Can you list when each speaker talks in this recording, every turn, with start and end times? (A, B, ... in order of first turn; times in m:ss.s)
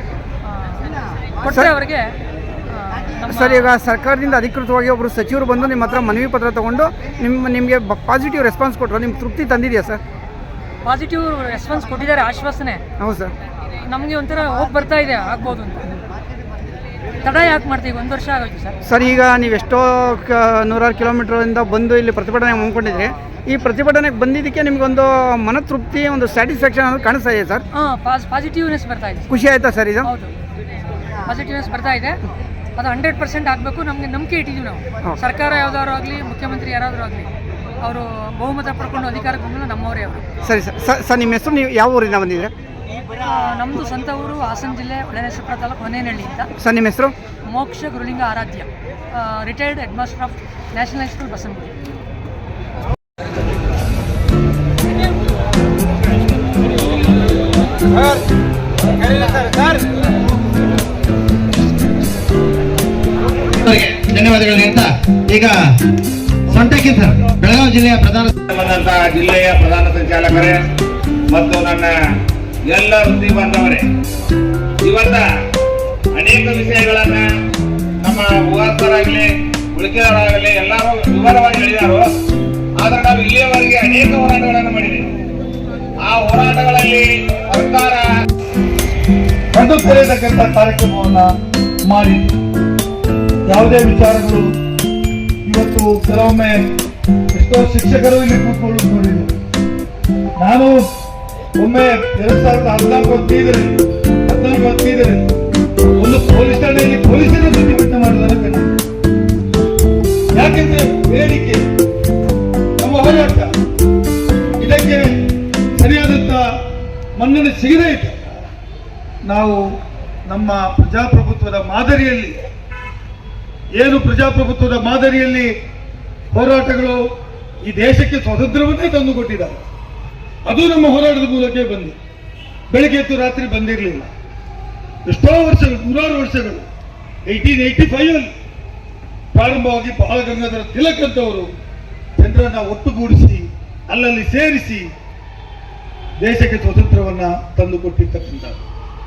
0:00.4-0:02.2 A
0:02.7-0:03.7 A
0:03.2-0:10.0 B
0:10.8-0:12.8 A
0:13.0-0:13.3 B
0:13.8-0:15.9 A
0:17.2-0:18.8 A
0:18.8-0:27.6 B
0:27.7-0:29.3 A
0:29.3-0:30.1 B
0:30.0-0:30.3 A
0:31.2-0:32.2 A
0:32.8-0:37.3 A
0:37.8-0:40.2 A
0:40.4-0:42.5 B
0:43.2-0:46.5 A
0:46.6-0:47.1 B
0:47.5-0:51.7 A
1:03.6-1:05.6 C
1:06.5-1:08.3 C
1:08.5-1:10.6 D
1:11.3-1:11.9 D
1:12.7-1:13.8 D
1:14.8-1:15.2 D
1:16.2-1:17.2 D
1:18.0-1:22.1 D
1:22.8-1:25.1 D
1:26.0-1:28.1 D
1:29.5-1:31.3 E
1:31.9-1:32.4 E
1:33.5-1:34.5 E
1:35.5-1:36.6 E
1:37.3-1:39.3 E
1:40.4-1:40.8 E
1:41.6-1:45.3 E
1:46.0-1:48.8 E
1:50.4-1:51.6 E
1:52.8-1:53.5 E
1:54.6-1:55.0 E
1:55.8-1:56.4 E
1:57.2-1:58.2 E
1:59.2-1:59.6 E
2:00.3-2:02.5 E
2:03.8-2:05.5 E
2:06.3-2:07.0 E
2:07.6-2:09.6 E
2:10.5-2:12.0 E
2:12.7-2:14.1 E
2:15.1-2:16.7 E
2:17.3-2:18.3 E
2:19.3-2:21.5 E
2:22.2-2:24.9 E
2:26.2-2:28.6 E